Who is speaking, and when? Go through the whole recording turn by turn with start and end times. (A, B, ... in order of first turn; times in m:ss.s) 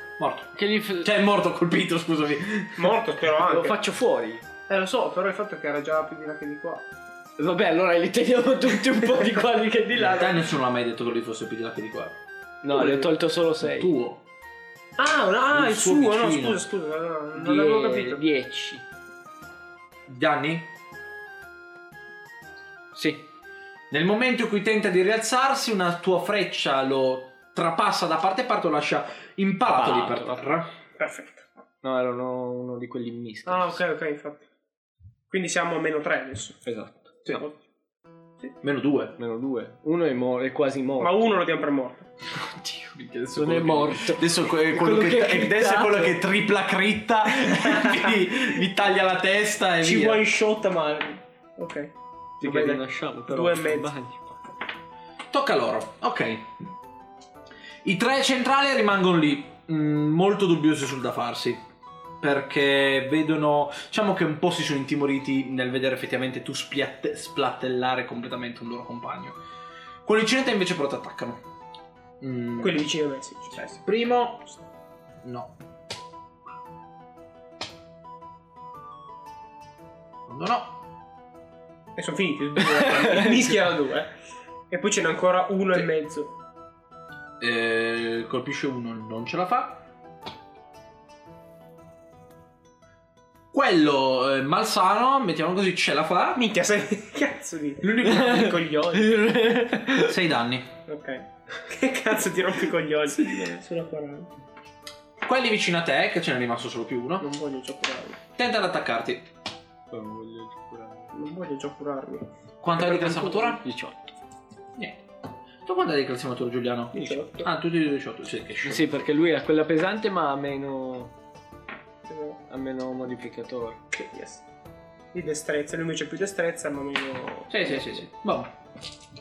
0:00.2-0:03.0 A
0:00.6-0:01.1 B
0:02.8-0:03.8 C
0:03.4-0:04.4 B
0:04.7-0:06.9 C
0:07.4-0:10.5 B
0:10.0-0:12.2 A
0:12.6-0:13.9 B
0:13.6-0:14.2 A
0:15.0-0:18.2 C
0:15.5-0:16.6 A
0:17.4-0:18.8 B
0:20.1-0:20.7 A
0:23.0-0:23.2 B
0:23.9-0:30.7 A
0:29.7-0:30.5 B
0:31.0-0:31.4 C
0:31.8-0:33.8 B
0:33.5-0:34.5 C
0:35.3-0:36.6 C
0:36.6-0:37.2 B
0:37.3-0:37.6 C
0:38.6-0:39.2 A
0:39.2-0:41.2 B
0:41.0-0:42.1 C
0:42.4-0:46.2 B
0:43.0-0:50.2 A
0:49.8-0:53.9 C
0:52.4-0:54.2 B
0:55.3-0:56.6 A
0:57.8-1:01.6 A
1:02.2-1:09.4 A
1:10.0-1:11.4 A
1:12.2-1:12.8 A
1:12.6-1:13.7 C
1:13.5-1:14.5 A
1:15.2-1:15.5 A
1:20.3-1:20.8 A
1:22.0-1:24.1 C
1:23.0-1:23.4 B
1:24.7-1:26.3 C
1:27.4-1:29.8 A
1:33.5-1:36.4 A
1:36.4-1:39.3 C
1:37.8-1:38.3 A
1:38.0-1:40.2 B
1:40.0-1:40.7 A
1:40.9-1:44.3 C
1:45.2-1:47.3 A
1:47.2-1:48.2 C
1:48.4-1:49.3 A
1:49.9-1:51.1 B
1:51.1-1:53.6 C
1:52.6-1:53.6 A
1:53.6-1:54.1 B
1:54.8-1:55.0 A
1:55.6-1:58.9 A
1:56.9-1:57.5 C
1:58.6-2:01.2 B
2:02.1-2:02.4 C
2:02.5-2:03.8 B
2:03.9-2:04.4 C
2:05.1-2:08.0 C
2:07.5-2:08.5 A